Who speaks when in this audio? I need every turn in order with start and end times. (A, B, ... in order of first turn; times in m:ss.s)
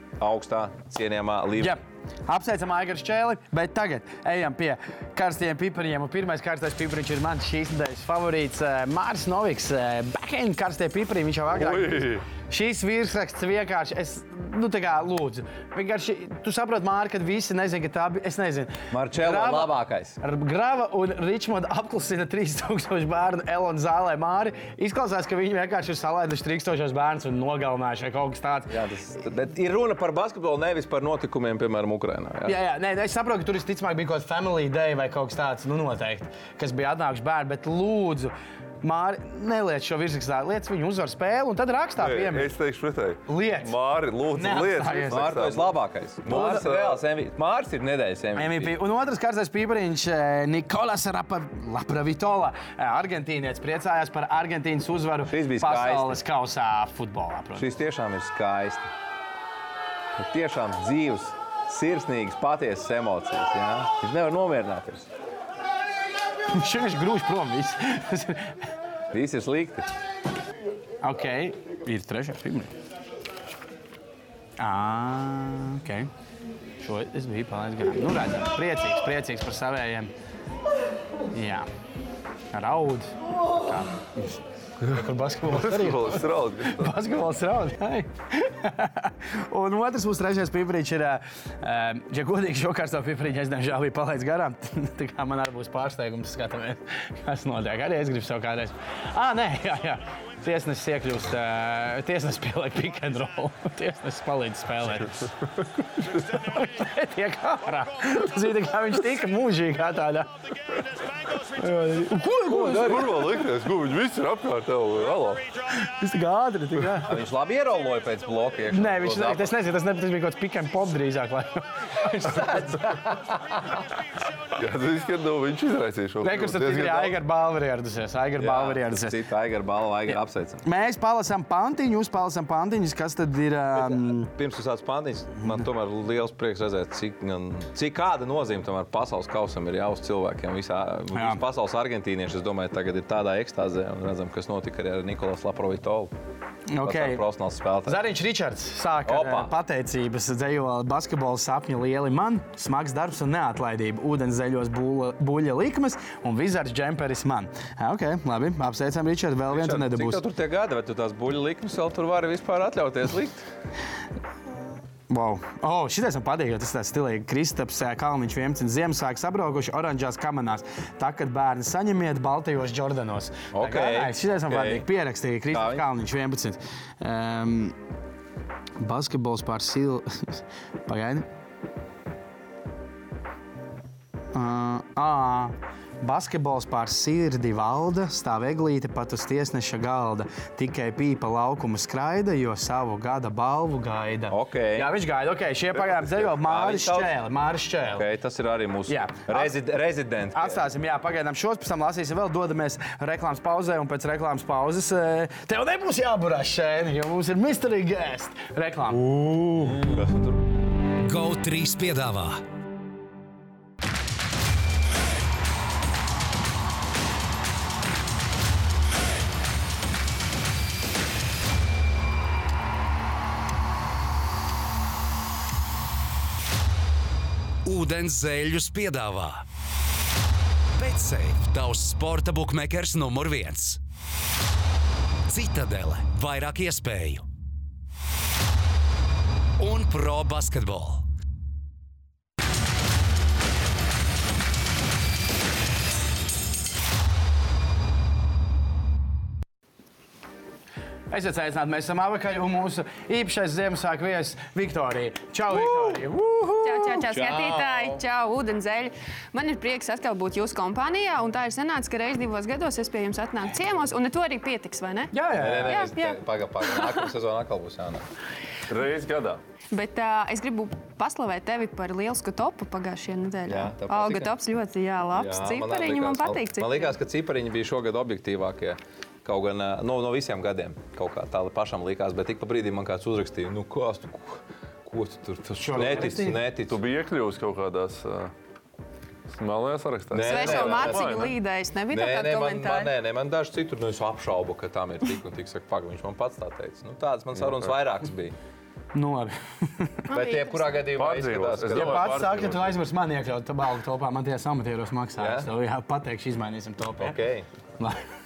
0:00.2-0:01.8 A
0:01.6-0:28.8 B
0:11.5-0:12.3 C
0:18.9-0:20.2 A
0:28.7-0:32.6 A
0:32.5-0:42.6 B
0:42.0-0:47.0 C
0:43.3-0:43.8 B
0:44.3-0:45.3 B
0:45.1-0:48.7 A
0:48.4-0:57.7 B
0:55.3-0:56.2 A
0:57.6-0:58.9 A
1:00.2-1:05.1 A
1:06.5-1:08.6 B
1:09.1-1:09.8 A
1:11.0-1:12.7 B
1:14.6-1:16.1 B
1:16.8-1:20.1 B
1:21.3-1:21.7 B
1:22.5-1:45.3 B
1:24.8-1:27.0 C
1:46.0-1:50.3 B
1:51.6-1:53.2 B
1:52.5-1:53.1 A
1:52.6-1:55.5 C
1:55.8-1:57.2 B
1:57.1-1:59.5 A
1:58.7-2:01.7 B
2:02.0-2:03.6 A
2:02.2-2:02.7 B
2:04.6-2:07.2 C
2:06.2-2:09.2 B
2:08.4-2:10.6 A
2:10.6-2:14.3 B
2:13.8-2:26.1 A
2:21.2-2:21.4 B
2:26.7-2:27.2 B
2:26.8-2:28.0 A
2:27.9-2:40.2 B
2:29.1-2:29.5 A
2:39.5-2:43.4 A
2:45.1-2:57.8 B
2:53.5-2:54.9 A
2:55.5-2:55.8 A
2:58.8-3:01.3 B
3:04.3-3:18.1 B
3:14.3-3:14.9 A
3:15.8-3:16.3 C
3:16.4-3:17.1 A
3:17.9-3:20.6 A
3:18.9-3:19.6 B
3:20.4-3:29.0 B
3:28.9-3:30.4 A
3:29.6-3:30.1 C
3:31.0-3:32.4 D
3:47.6-3:49.4 D
3:50.8-3:53.8 D
3:55.3-3:57.2 D
3:59.6-4:01.0 D
4:11.1-4:17.1 B
4:15.6-4:16.0 E
4:16.6-4:27.1 E
4:17.1-4:18.0 A
4:25.1-4:25.9 B
4:25.4-4:28.1 A
4:28.7-4:29.4 C
4:29.7-4:37.0 E
4:33.5-4:34.3 A
4:35.1-4:46.8 A
4:45.6-4:46.4 B
4:46.6-4:48.3 C
4:49.3-4:51.4 C
4:50.1-4:51.3 A
4:50.2-4:52.9 E
4:51.9-4:58.4 A
4:57.4-4:57.7 C
4:58.9-5:00.0 B
5:00.1-5:00.9 E
5:00.1-5:02.2 A
5:01.0-5:02.8 C
5:01.7-5:07.2 B
5:05.2-5:05.5 A
5:07.0-5:07.5 A